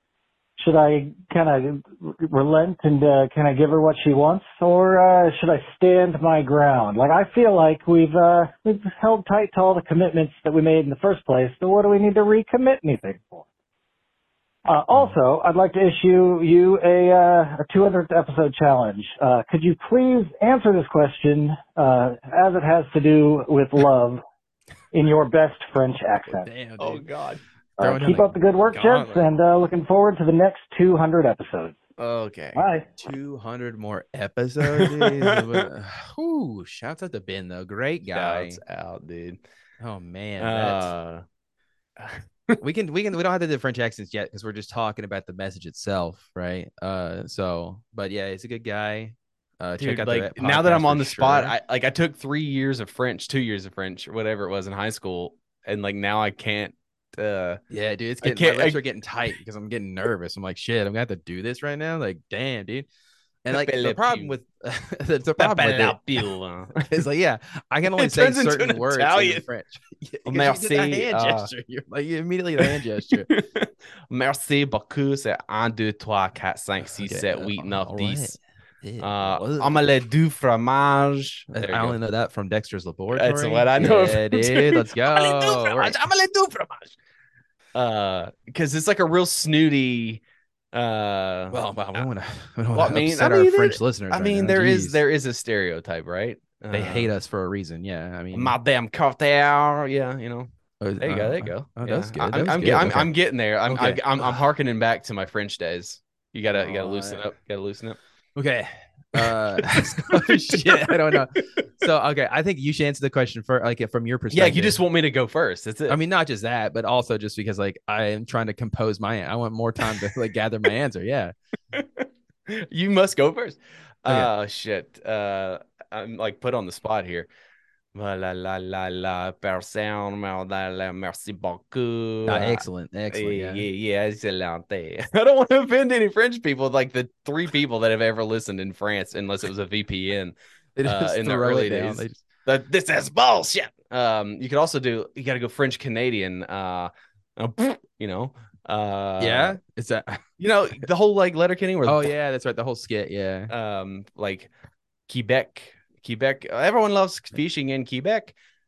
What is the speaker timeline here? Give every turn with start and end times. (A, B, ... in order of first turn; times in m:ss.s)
0:00.6-0:13.4 A
0:14.7-0:24.2 A
0:24.9-0:26.5 A
0:26.3-0:27.0 B
0:26.8-0:27.4 C
0:27.8-0:31.8 A
0:27.8-0:29.3 B
0:32.0-0:32.7 C
0:32.5-0:32.9 A
0:33.0-0:38.6 B
0:34.8-0:35.4 C
0:38.1-0:39.4 C
0:39.8-0:40.9 B
0:40.4-0:41.2 C
0:42.0-0:42.6 C
0:42.6-0:51.6 B
0:49.8-0:57.6 C
0:57.7-1:02.9 B
0:58.2-0:58.8 C
1:03.4-1:06.2 B
1:03.5-1:04.4 C
1:05.4-1:07.0 C
1:06.8-1:13.3 B
1:08.0-1:09.4 C
1:10.3-1:11.5 C
1:12.6-1:18.4 C
1:16.8-1:19.9 B
1:19.0-1:22.0 C
1:21.5-1:26.0 B
1:23.1-1:27.0 C
1:27.8-1:32.0 C
1:31.5-1:35.0 B
1:32.7-1:37.1 C
1:36.7-1:38.6 B
1:38.3-1:48.0 C
1:40.8-1:43.1 B
1:43.7-1:44.4 B
1:46.6-1:47.2 B
1:48.4-1:54.8 B
1:49.2-1:51.6 C
1:54.3-1:56.0 C
1:55.9-2:01.4 B
2:01.7-2:07.3 C
2:04.1-2:04.3 B
2:07.9-2:29.6 C
2:12.3-2:13.6 B
2:20.8-2:22.2 B
2:29.2-2:30.3 B
2:30.4-2:32.1 C
2:31.8-2:33.5 B
2:33.5-2:34.5 C
2:35.1-2:38.3 C